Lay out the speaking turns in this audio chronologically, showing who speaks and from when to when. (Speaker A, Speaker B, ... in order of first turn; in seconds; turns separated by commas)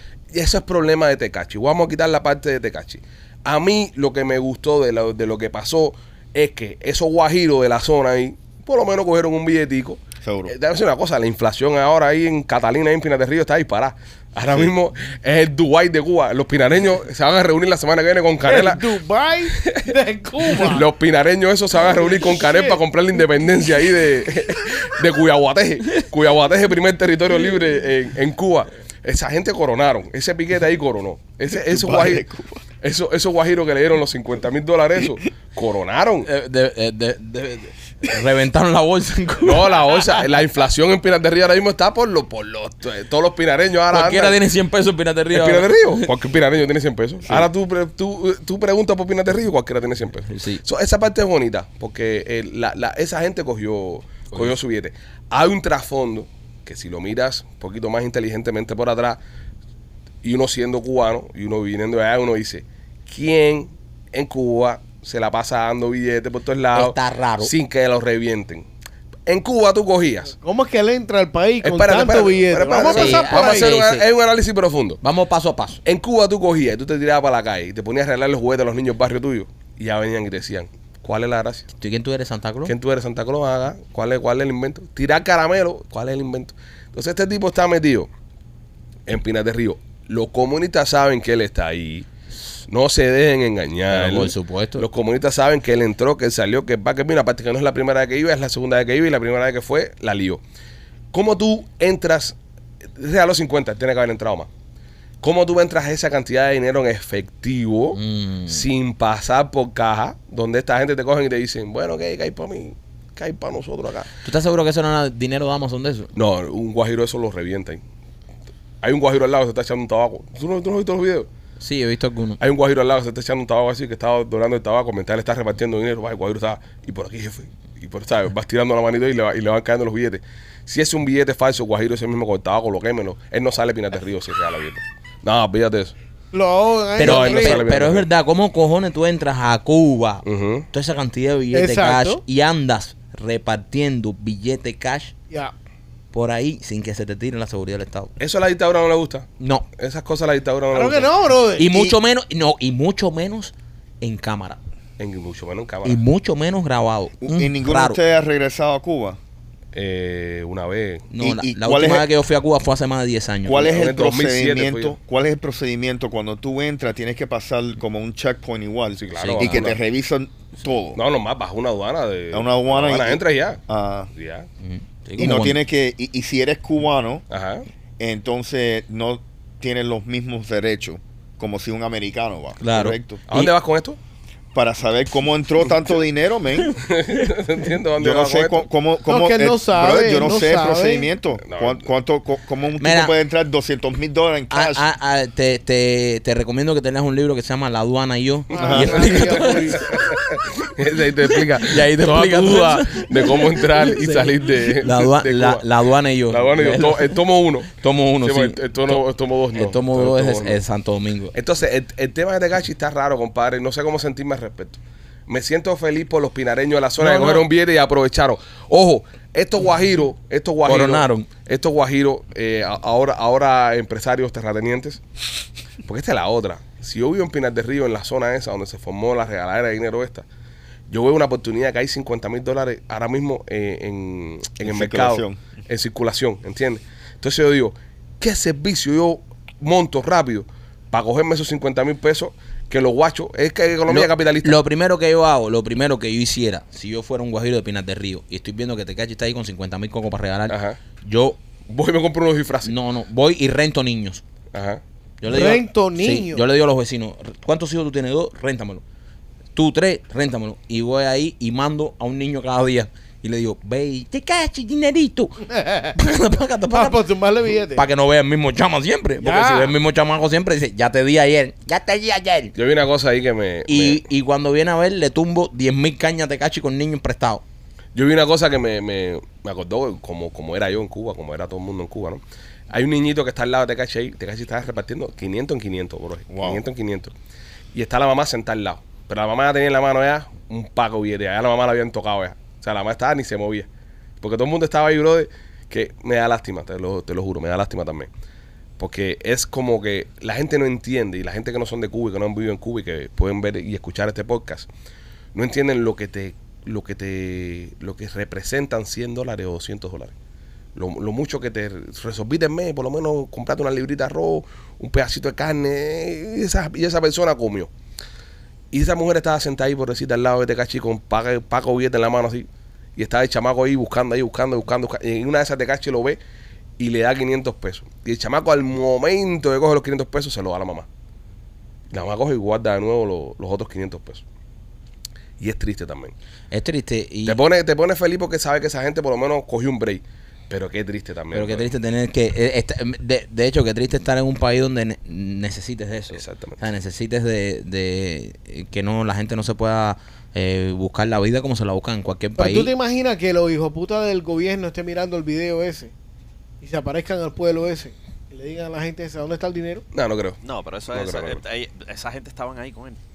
Speaker A: 0.3-18.9, Speaker B: 10.2-10.5, Speaker C: 18.4-20.9, Speaker A: 19.5-19.9, Speaker A: 20.4-32.3, Speaker C: 21.9-22.8, Speaker B: 31.5-32.6, Speaker A: 32.8-36.3, Speaker D: 36.2-39.9, Speaker A: 39.4-44.4, Speaker D: 43.9-46.1, Speaker A: 45.3-59.2, Speaker D: 50.3-50.6, Speaker A: 60.2-68.7, Speaker D: 66.7-67.5, Speaker A: 69.3-70.3, Speaker C: 70.4-73.7, Speaker A: 71.6-75.0, Speaker D: 72.9-74.0, Speaker D: 75.0-75.8, Speaker A: 75.8-81.7, Speaker D: 81.8-82.7, Speaker A: 82.7-88.1, Speaker A: 89.1-92.1, Speaker A: 92.7-100.4, Speaker D: 93.9-94.8, Speaker A: 101.1-102.3, Speaker A: 103.0-104.5, Speaker A: 105.2-114.1, Speaker D: 107.9-108.6, Speaker D: 114.2-116.1, Speaker A: 116.2-117.8, Speaker A: 118.8-121.3, Speaker D: 121.6-122.4, Speaker A: 122.4-135.9, Speaker C: 136.3-137.7, Speaker D: 137.0-145.1, Speaker A: 137.0-138.1, Speaker A: 140.2-140.7, Speaker C: 141.5-142.2, Speaker D: 146.1-148.1, Speaker A: 148.2-151.1, Speaker D: 149.4-149.7, Speaker C: 150.7-151.9, Speaker D: 151.6-154.6, Speaker A: 155.0-156.0, Speaker D: 155.8-158.0, Speaker B: 157.2-159.2, Speaker A: 159.7-161.1, Speaker D: 161.1-163.8, Speaker B: 161.2-162.1, Speaker B: 163.5-171.0, Speaker A: 163.6-165.0, Speaker A: 169.0-169.8, Speaker D: 169.2-169.8, Speaker A: 170.9-173.6, Speaker B: 172.3-174.1, Speaker A: 174.2-174.5, Speaker D: 174.6-175.6, Speaker B: 175.2-177.2, Speaker A: 177.3-177.6, Speaker B: 178.0-183.2, Speaker D: 182.6-183.5, Speaker A: 183.3-184.0, Speaker B: 184.5-186.8, Speaker A: 186.7-188.7, Speaker B: 188.0-194.8, Speaker C: 189.1-191.1, Speaker A: 191.4-191.8, Speaker D: 192.8-193.1, Speaker D: 194.5-199.8, Speaker C: 198.5-200.0, Speaker B: 198.6-199.1, Speaker A: 198.6-205.6, Speaker D: 201.7-207.2, Speaker A: 206.3-207.7, Speaker D: 207.8-209.0, Speaker A: 208.2-210.6, Speaker D: 209.6-211.3, Speaker A: 211.3-225.0, Speaker D: 217.0-217.5, Speaker D: 220.7-221.3, Speaker A: 225.8-230.2, Speaker A: 230.9-244.6, Speaker B: 234.6-235.4, Speaker D: 243.9-251.4, Speaker A: 250.5-250.8, Speaker A: 251.7-252.7, Speaker D: 252.7-254.2, Speaker A: 254.5-254.8, Speaker D: 255.2-258.8, Speaker C: 255.3-256.4, Speaker D: 259.6-265.4, Speaker C: 265.5-266.0, Speaker D: 265.9-267.0, Speaker C: 266.7-267.9, Speaker D: 267.8-272.6, Speaker C: 269.2-269.7, Speaker A: 272.6-274.0, Speaker D: 273.7-277.4, Speaker A: 277.9-287.1, Speaker B: 286.3-286.6, Speaker A: 287.7-293.7, Speaker A: 294.2-298.1, Speaker A: 298.8-304.7, Speaker A: 305.3-310.1, Speaker A: 310.8-317.7, Speaker A: 318.7-326.2, Speaker A: 326.8-330.9, Speaker A: 331.9-334.2, Speaker A: 335.4-336.1, Speaker D: 336.5-337.4, Speaker A: 337.3-341.7, Speaker D: 341.3-352.7, Speaker A: 346.1-346.6, Speaker C: 352.4-355.9, Speaker C: 356.6-359.8, Speaker A: 359.9-360.4, Speaker E: 360.4-363.0, Speaker A: 360.9-361.4